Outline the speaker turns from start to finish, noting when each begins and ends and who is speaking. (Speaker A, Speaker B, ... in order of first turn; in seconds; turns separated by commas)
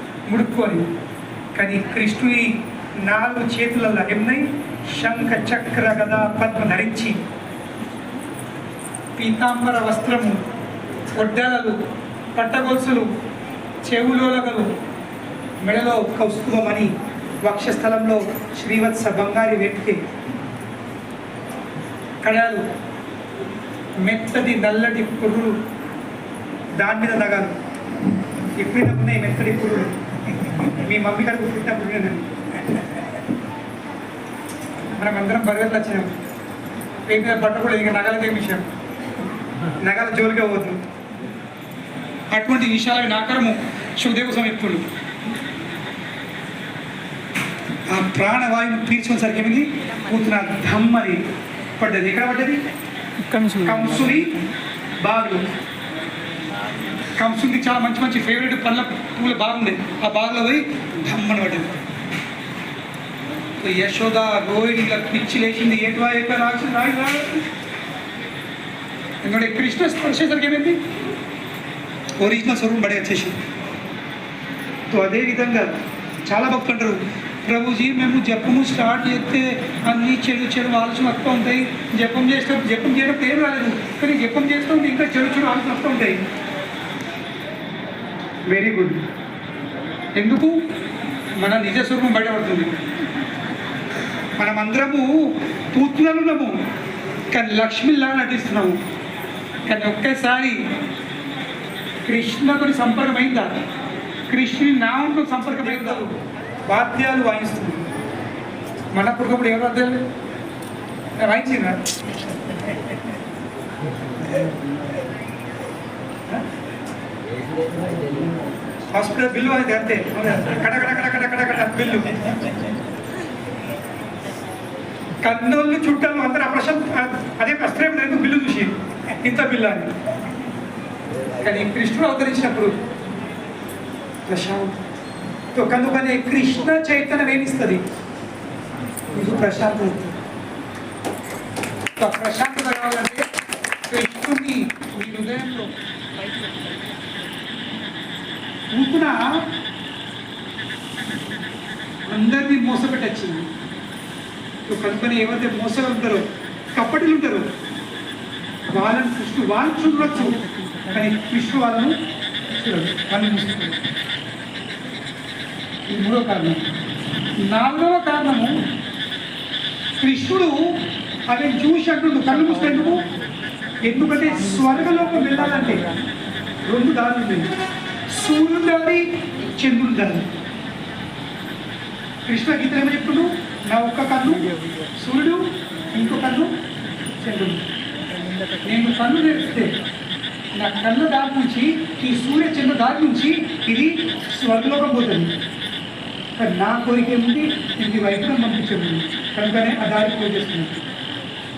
Speaker A: 0.2-0.9, Speaker A: 1.5-7.1, Speaker A: 9.2-10.4, Speaker A: 11.1-11.8, Speaker A: 12.3-13.1, Speaker A: 13.8-14.7, Speaker A: 15.6-16.9, Speaker A: 17.4-20.0, Speaker A: 22.2-22.6, Speaker A: 24.0-25.6, Speaker A: 26.8-27.5, Speaker A: 28.5-29.9, Speaker A: 30.5-32.2, Speaker A: 35.0-36.1, Speaker A: 37.1-38.6, Speaker A: 39.8-40.8, Speaker A: 42.3-44.9, Speaker A: 47.9-51.2, Speaker A: 51.8-52.6, Speaker A: 53.3-54.4, Speaker A: 55.0-55.5, Speaker A: 57.1-61.8, Speaker A: 63.6-67.4, Speaker A: 69.2-70.8, Speaker A: 72.2-73.4, Speaker A: 74.9-75.7, Speaker A: 76.2-86.2, Speaker A: 88.5-89.0, Speaker A: 90.1-90.6, Speaker A: 91.4-92.7, Speaker A: 94.4-96.6, Speaker A: 97.3-98.8, Speaker A: 99.7-100.6, Speaker A: 102.0-103.6, Speaker A: 104.3-106.1, Speaker A: 106.7-107.8, Speaker A: 108.9-110.0, Speaker A: 111.2-111.8, Speaker A: 118.9-122.2, Speaker A: 125.2-129.9, Speaker A: 131.4-132.7, Speaker A: 134.2-134.8, Speaker A: 135.5-137.8, Speaker A: 139.1-140.2, Speaker A: 142.0-143.2, Speaker A: 143.9-145.7, Speaker A: 148.7-149.2, Speaker A: 152.1-153.5, Speaker A: 154.7-157.5, Speaker A: 158.7-161.9, Speaker A: 162.6-163.8, Speaker A: 165.9-166.6, Speaker A: 167.4-168.5, Speaker A: 170.0-173.1, Speaker A: 173.8-175.9, Speaker A: 176.6-177.5, Speaker A: 178.1-180.3, Speaker A: 182.2-186.5, Speaker A: 187.2-187.6, Speaker A: 188.6-189.7, Speaker A: 190.6-195.3, Speaker A: 196.4-200.8